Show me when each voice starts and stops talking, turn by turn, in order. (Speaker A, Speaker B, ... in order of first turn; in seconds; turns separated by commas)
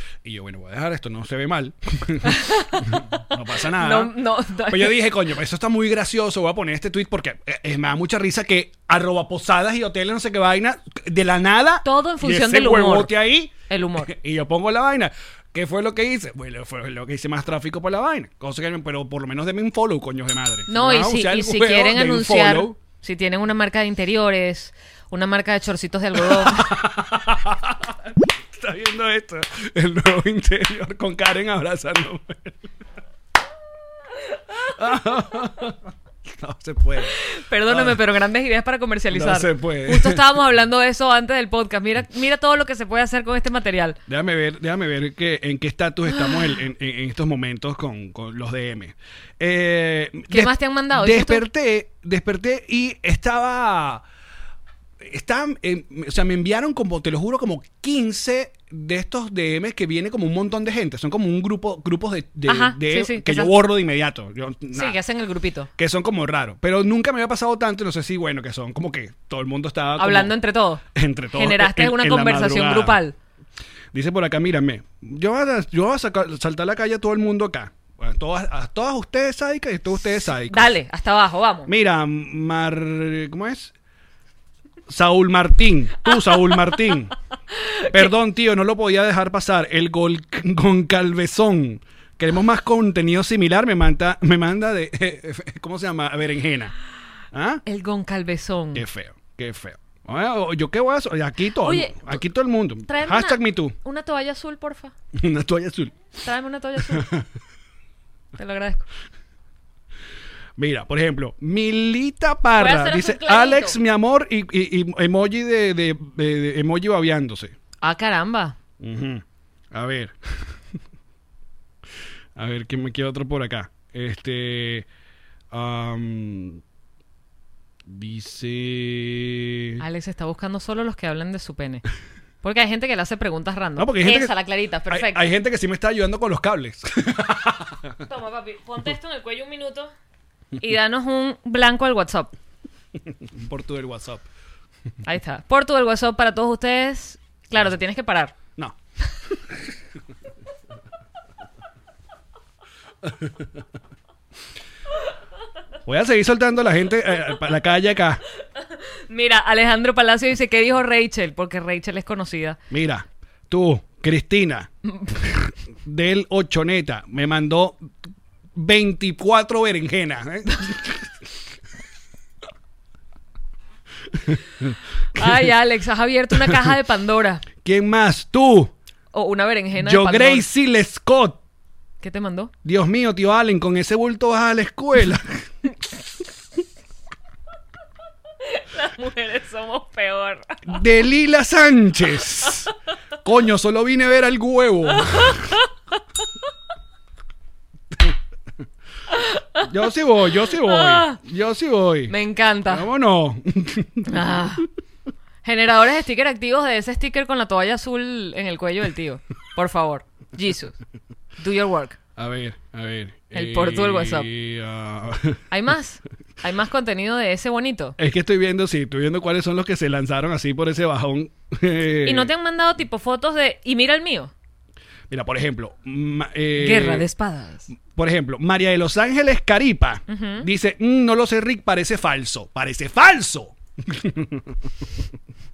Speaker A: 0.2-22.8, Speaker B: 2.2-5.0, Speaker B: 11.8-13.1, Speaker B: 13.7-14.1, Speaker B: 20.7-26.8, Speaker A: 26.2-32.6, Speaker A: 34.6-38.0, Speaker B: 37.0-44.0, Speaker A: 39.1-40.3, Speaker A: 44.1-54.0, Speaker B: 46.2-46.5, Speaker B: 50.3-51.4, Speaker A: 55.0-65.0, Speaker B: 62.5-63.5, Speaker B: 64.7-65.7, Speaker A: 65.8-73.0, Speaker B: 70.0-70.8, Speaker B: 71.3-73.1, Speaker A: 73.9-80.7, Speaker B: 80.4-81.7, Speaker A: 81.7-83.7, Speaker A: 84.9-87.1, Speaker B: 86.1-86.7, Speaker B: 87.5-88.1, Speaker A: 87.9-96.7, Speaker A: 97.3-97.6, Speaker B: 97.7-98.8, Speaker A: 98.7-103.7, Speaker B: 101.6-102.2, Speaker B: 102.8-104.9, Speaker A: 105.1-106.0, Speaker B: 106.2-107.1, Speaker A: 106.8-107.3, Speaker B: 108.4-108.8, Speaker A: 110.6-117.5, Speaker B: 112.5-113.8, Speaker B: 117.8-118.5, Speaker A: 118.8-120.6, Speaker A: 122.3-124.9, Speaker A: 125.5-126.6, Speaker A: 127.8-129.8, Speaker B: 129.8-131.8, Speaker B: 132.4-135.3, Speaker A: 133.8-134.3, Speaker A: 134.9-137.9, Speaker B: 138.1-139.9, Speaker B: 140.6-142.3, Speaker A: 143.2-144.2, Speaker B: 145.0-148.3, Speaker A: 153.0-153.4, Speaker A: 155.8-158.2, Speaker B: 158.8-162.6, Speaker A: 162.7-167.9, Speaker A: 168.5-171.1, Speaker A: 174.1-174.4, Speaker B: 175.1-177.4, Speaker A: 177.6-178.7, Speaker B: 179.1-180.5, Speaker A: 179.7-181.4, Speaker B: 182.0-182.5, Speaker A: 182.6-185.5, Speaker B: 188.4-190.8, Speaker A: 190.7-192.7, Speaker A: 193.2-195.6, Speaker B: 195.0-195.7, Speaker B: 199.1-199.7, Speaker A: 199.6-202.1, Speaker B: 200.4-201.2, Speaker B: 202.1-202.8, Speaker A: 202.7-204.2, Speaker B: 204.1-204.7, Speaker B: 205.4-210.7, Speaker B: 211.4-212.0, Speaker A: 212.2-215.4, Speaker B: 213.3-214.3, Speaker B: 215.5-218.0, Speaker A: 218.0-222.3, Speaker B: 222.1-224.3, Speaker A: 225.1-227.1, Speaker B: 226.5-227.7, Speaker A: 227.9-234.7, Speaker B: 230.1-230.5